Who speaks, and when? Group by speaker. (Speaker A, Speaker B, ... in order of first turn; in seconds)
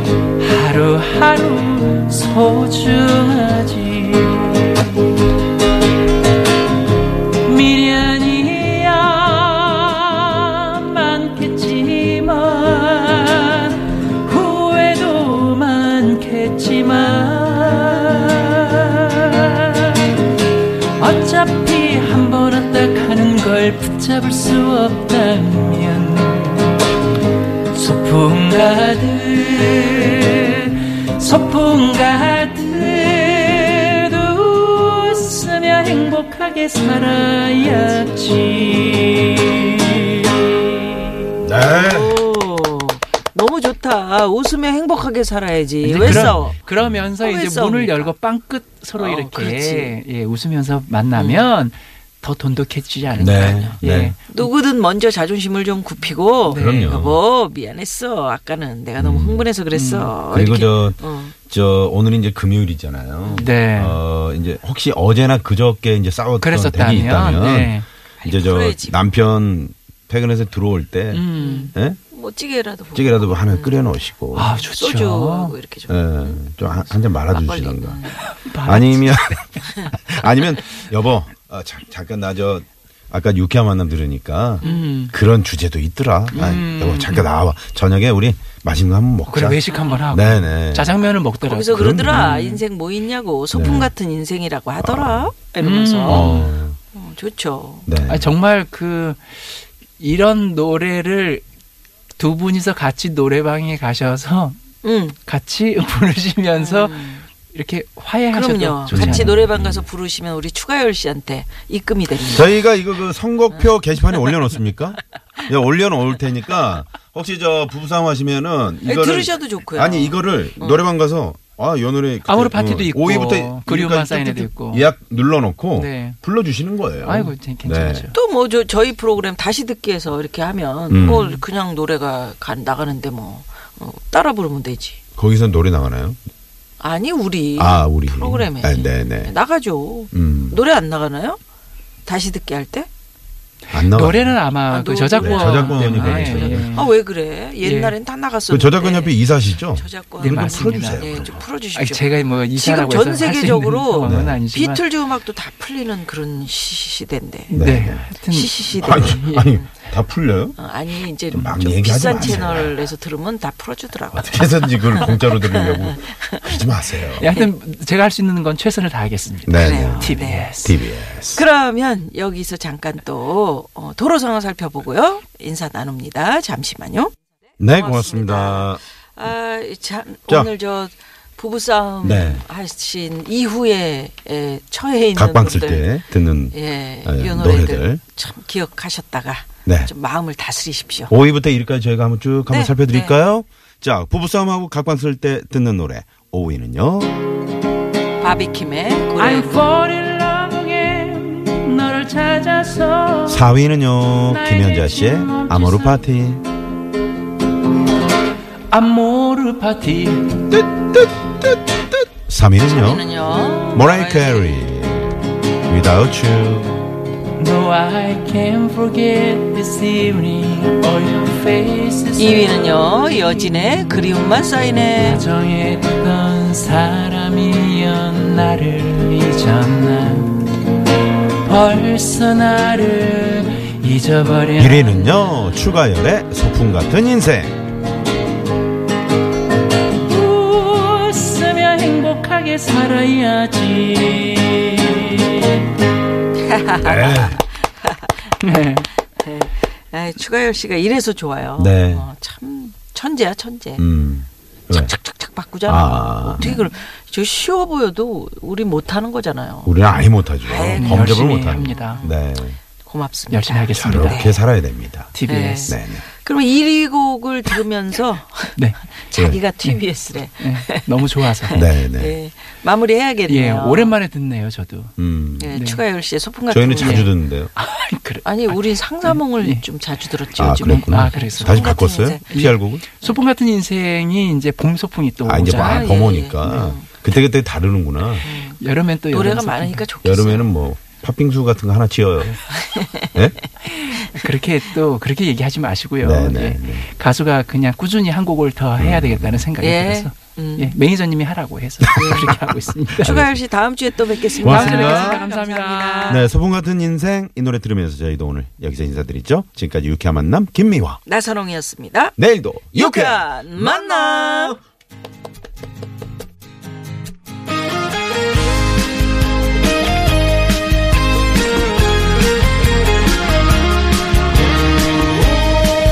Speaker A: 0.4-4.8, 7.4-20.0, 21.0-26.8, 27.7-40.8, 45.8-54.5, 56.5-56.9, 59.7-60.1, 63.4-64.0, 66.4-67.9, 71.1-71.7, 74.3-75.5, 78.2-79.5, 84.6-85.2, 86.3-87.3, 89.3-92.6, 95.6-96.5, 98.1-99.5, 100.0-101.4, 102.2-104.6, 105.3-109.5, 122.3-124.9, 125.8-126.2, 127.0-128.2, 131.0-131.4, 143.7-146.9, 147.6-148.0, 150.2-154.8, 157.5-159.5, 167.2-170.8, 199.2-206.0, 208.7-210.5, 217.4-223.9, 224.9-230.5, 231.4-235.3, 240.1-245.6, 248.4-248.9, 256.4-256.7, 260.8-262.0, 263.3-264.4, 265.1-265.8, 270.4-271.6, 273.3-274.9, 275.5-275.8, 276.8-279.6, 280.6-281.7, 282.3-285.9, 288.2-289.8, 293.8-303.2, 304.4-306.3
Speaker B: 41.4-42.2, 45.9-47.1, 53.2-54.2, 56.5-57.2, 59.0-59.5, 60.3-72.0, 73.0-74.5, 75.9-78.1, 78.6-91.0, 91.7-92.4, 93.5-93.9, 94.8-95.3, 96.1-96.8, 97.9-98.3, 108.9-109.9, 112.3-128.1, 130.9-131.3, 135.2-136.2, 137.6-139.3, 140.1-140.6, 143.7-144.4, 145.2-146.9, 148.5-151.4, 154.0-154.4, 157.5-158.1, 158.7-160.6, 161.3-162.8, 164.1-167.3, 169.5-171.4, 177.6-178.8, 182.0-182.4, 185.2-188.0, 189.7-189.9, 191.1-197.2, 203.3-206.4, 210.5-213.1, 213.7-216.7, 234.6-237.6, 246.8-247.4, 251.6-252.1, 253.8-254.9, 255.6-256.4, 259.6-262.6, 263.8-265.1, 265.7-266.0, 271.5-272.2, 275.0-275.5, 276.5-277.5, 280.4-282.9, 285.2-288.3, 290.0-292.5, 296.0-296.9, 298.8-299.5, 303.0-303.4, 304.4-305.2, 306.1-311.0, 312.2-314.6
Speaker C: 41.6-46.6, 47.2-48.1, 49.0-49.9, 51.1-51.5, 53.1-61.3, 63.2-63.5, 68.2-69.1, 71.4-73.9, 74.5-76.4, 77.3-78.2, 89.7-90.1, 91.4-96.4, 96.9-97.9, 104.8-105.2, 106.6-107.3, 108.3-112.6, 114.1-114.3, 118.8-120.8, 128.1-135.0, 136.8-141.4, 142.1-142.9, 144.7-157.5, 158.3-159.7, 160.6-166.6, 167.2-167.5, 169.6-170.6, 171.3-177.1, 177.7-186.0, 186.5-191.1, 192.5-193.2, 198.2-199.6, 212.7-214.6, 222.2-225.2, 246.4-248.3, 249.2-253.8, 254.7-259.8, 260.4-264.4, 265.3-274.0, 275.4-277.1, 278.2-282.4, 285.5-286.9, 288.2-290.5, 292.5-293.1, 299.6-300.7, 302.0-302.4, 303.0-306.3, 311.1-312.2, 312.7-314.6